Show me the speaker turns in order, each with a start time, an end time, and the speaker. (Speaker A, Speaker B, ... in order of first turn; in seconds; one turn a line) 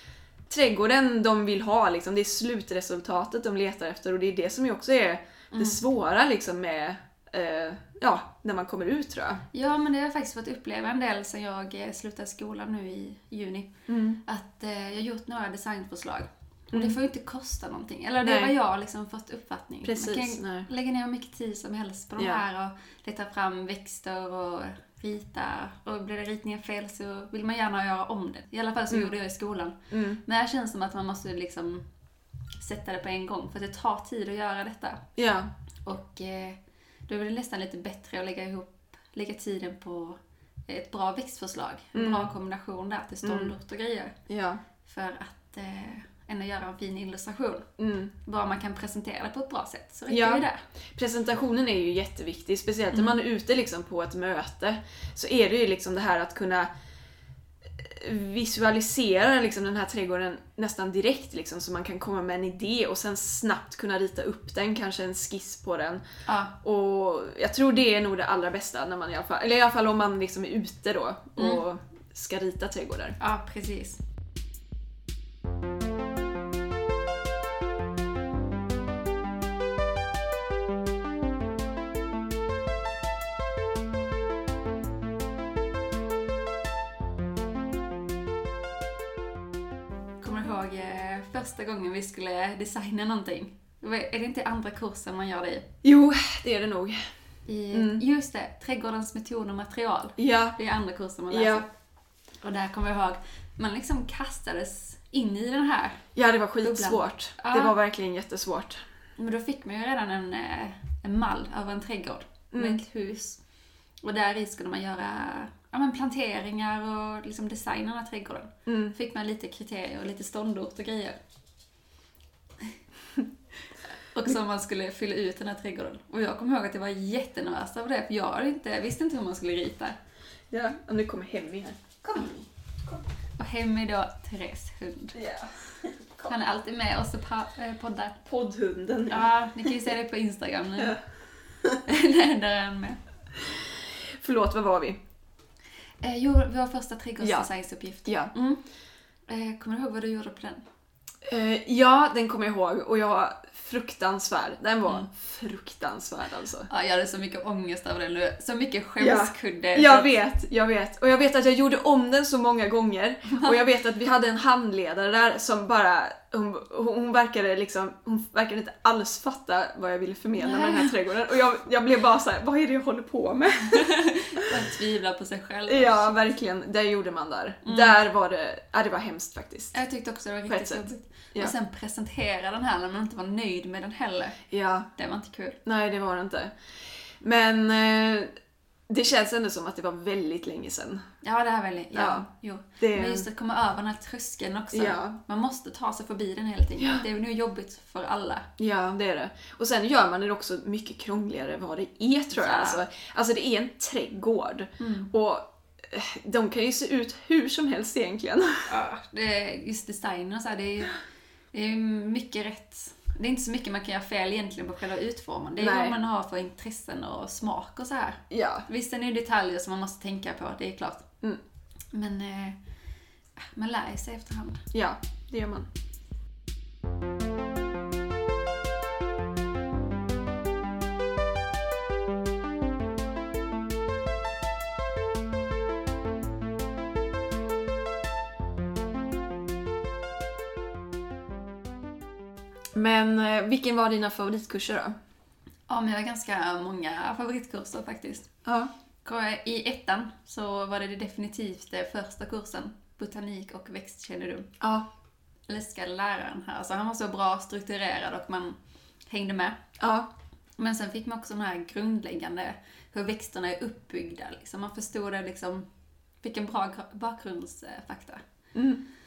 Speaker A: 0.5-9.4
Speaker B: 5.5-5.8
Speaker B: 9.5-13.7
Speaker A: 13.9-14.2
Speaker B: 14.2-31.9
Speaker A: 18.2-18.5
Speaker A: 19.8-20.7
Speaker A: 29.9-30.2
Speaker B: 32.6-35.0
Speaker A: 35.2-35.5
Speaker B: 35.9-44.1
Speaker A: 41.9-42.3
Speaker A: 43.2-43.5
Speaker A: 44.3-44.6
Speaker B: 44.9-47.7
Speaker A: 47.8-48.1
Speaker B: 48.2-50.6
Speaker A: 50.1-56.7
Speaker A: 57.8-66.0
Speaker B: 66.2-66.5
Speaker A: 66.6-73.2
Speaker B: 71.4-71.6
Speaker B: 73.2-74.0
Speaker B: 90.2-95.7
Speaker A: 95.8-97.0
Speaker B: 97.5-101.7
Speaker A: 97.7-98.0
Speaker A: 100.2-100.6
Speaker A: 101.3-101.6
Speaker B: 102.4-106.0
Speaker A: 106.1-108.8
Speaker B: 106.6-107.7
Speaker B: 109.2-113.4
Speaker A: 112.5-112.8
Speaker B: 114.0-121.2
Speaker A: 118.7-118.9
Speaker B: 124.1-130.0
Speaker A: 130.5-133.0
Speaker B: 133.4-135.2
Speaker A: 135.1-136.3
Speaker B: 136.2-138.2
Speaker A: 138.2-139.9
Speaker B: 139.1-141.0
Speaker B: 141.8-143.0
Speaker A: 143.4-145.0
Speaker B: 146.0-148.6
Speaker A: 147.2-147.5
Speaker A: 148.1-148.3
Speaker B: 149.3-150.6
Speaker A: 151.2-156.7
Speaker B: 156.7-160.1
Speaker A: 159.0-174.5
Speaker B: 163.3-163.6
Speaker B: 170.4-170.9
Speaker B: 173.6-176.3
Speaker A: 175.7-179.8
Speaker B: 177.6-177.9
Speaker B: 179.7-184.4
Speaker A: 180.5-181.5
Speaker A: 184.5-184.9
Speaker B: 184.9-185.6
Speaker A: 185.7-186.5
Speaker A: 187.2-188.3
Speaker A: 188.9-191.1
Speaker B: 191.2-198.5
Speaker A: 191.9-192.3
Speaker A: 192.8-193.2
Speaker A: 194.7-195.2
Speaker A: 196.8-197.0
Speaker A: 198.6-208.7
Speaker B: 202.3-202.8
Speaker B: 204.8-205.1
Speaker B: 208.7-211.0
Speaker B: 211.5-221.1
Speaker A: 215.6-215.9
Speaker A: 218.3-218.7
Speaker B: 221.9-222.6
Speaker B: 223.4-224.6
Speaker A: 224.7-225.7
Speaker A: 242.7-244.9
Speaker B: 245.7-248.3
Speaker A: 248.4-248.7
Speaker B: 249.0-254.5
Speaker A: 254.6-254.8
Speaker B: 255.5-258.6
Speaker B: 259.1-259.6
Speaker A: 259.8-260.1
Speaker B: 260.6-265.6
Speaker B: 266.2-268.2
Speaker A: 268.5-268.8